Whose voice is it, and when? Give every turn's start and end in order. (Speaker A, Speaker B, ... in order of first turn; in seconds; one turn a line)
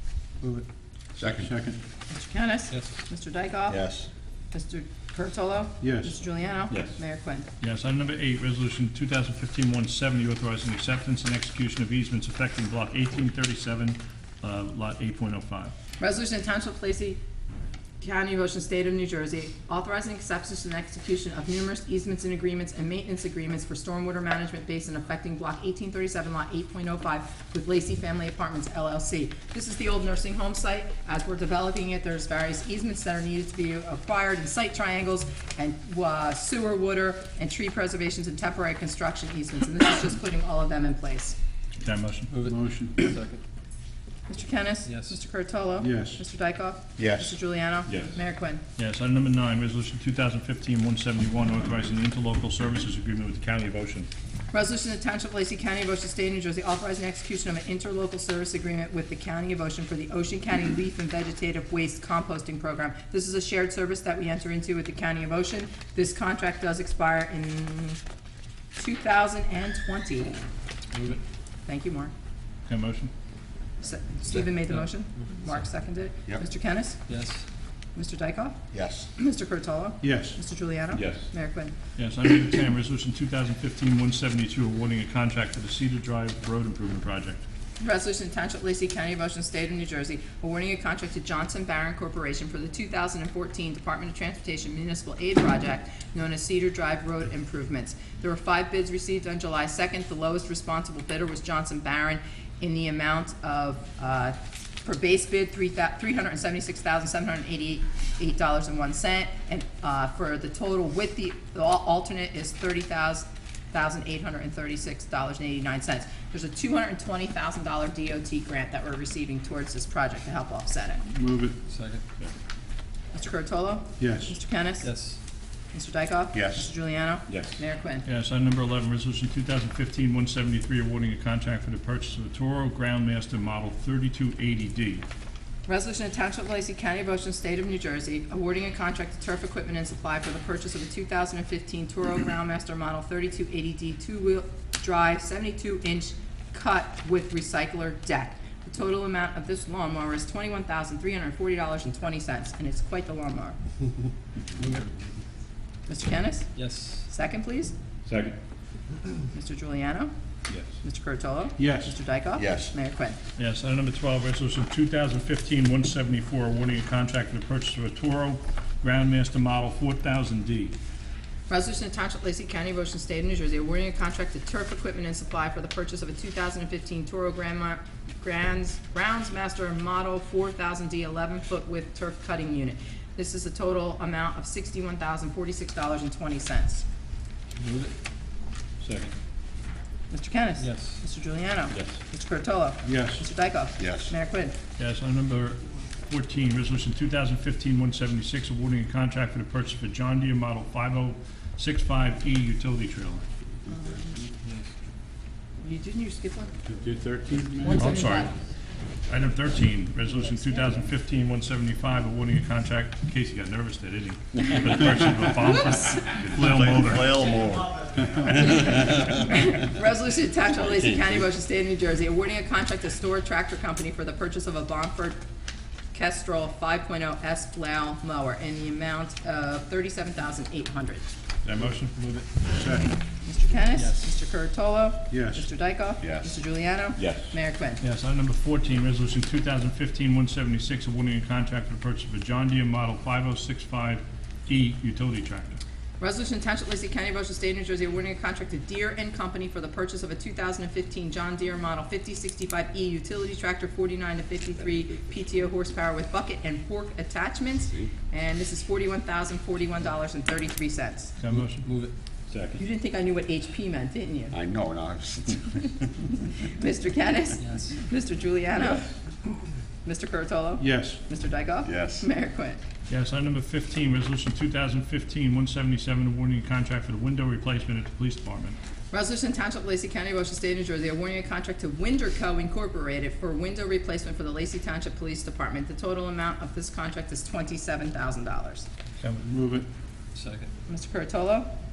Speaker A: 1.2-1.5
Speaker B: 1.4-1.8
Speaker C: 2.1-3.8
Speaker A: 3.7-4.1
Speaker C: 4.5-7.5
Speaker B: 5.8-6.1
Speaker D: 7.6-15.7
Speaker C: 16.0-17.2
Speaker C: 18.0-41.4
Speaker D: 41.8-42.3
Speaker E: 42.3-43.4
Speaker B: 42.5-43.0
Speaker C: 44.3-48.6
Speaker E: 44.9-45.2
Speaker B: 45.8-46.2
Speaker A: 47.0-47.4
Speaker D: 48.8-54.1
Speaker C: 54.5-68.0
Speaker C: 68.8-70.4
Speaker E: 70.9-71.2
Speaker C: 71.7-72.1
Speaker D: 72.7-73.1
Speaker C: 73.8-77.0
Speaker E: 77.1-77.5
Speaker C: 78.0-78.6
Speaker A: 78.7-79.1
Speaker C: 79.2-81.7
Speaker B: 80.0-80.4
Speaker D: 82.0-87.4
Speaker C: 87.8-121.0
Speaker B: 121.1-121.6
Speaker E: 121.7-122.0
Speaker C: 123.1-124.9
Speaker B: 124.0-124.4
Speaker E: 124.8-125.2
Speaker C: 125.7-128.1
Speaker A: 126.3-126.7
Speaker D: 128.1-135.0
Speaker C: 135.7-153.6
Speaker C: 155.9-157.7
Speaker E: 156.6-157.1
Speaker D: 158.1-158.4
Speaker C: 159.3-160.1
Speaker C: 160.8-163.2
Speaker B: 161.6-162.0
Speaker A: 162.4-162.7
Speaker D: 163.4-170.8
Speaker C: 171.5-186.8
Speaker E: 187.6-187.9
Speaker D: 188.8-189.1
Speaker C: 190.1-194.6
Speaker E: 190.6-191.0
Speaker B: 192.8-193.3
Speaker A: 193.8-194.1
Speaker D: 194.8-203.2
Speaker C: 203.7-204.3
Speaker E: 204.4-204.7
Speaker C: 205.6-206.5
Speaker B: 206.7-207.9
Speaker C: 207.7-208.3
Speaker D: 207.7-208.3
Speaker D: 209.1-217.3
Speaker C: 210.1-210.9
Speaker C: 215.5-216.1
Speaker A: 216.2-218.8
Speaker C: 218.2-225.2
Speaker A: 220.7-221.2
Speaker C: 225.9-231.1
Speaker D: 231.4-232.0
Speaker E: 231.9-232.4
Speaker B: 232.6-232.9
Speaker C: 233.2-237.8
Speaker E: 233.8-234.1
Speaker B: 235.1-235.5
Speaker A: 236.0-236.4
Speaker D: 237.8-245.6
Speaker C: 246.0-261.2
Speaker D: 261.2-261.6
Speaker E: 261.6-261.9
Speaker C: 262.5-264.4
Speaker A: 264.3-265.8
Speaker C: 266.3-268.9
Speaker E: 267.4-267.8
Speaker C: 269.9-272.6
Speaker B: 270.6-271.0
Speaker A: 271.6-272.1
Speaker D: 272.9-278.6
Speaker C: 278.9-288.7
Speaker D: 289.0-289.2
Speaker B: 289.3-289.7
Speaker E: 290.1-290.5
Speaker C: 290.7-291.5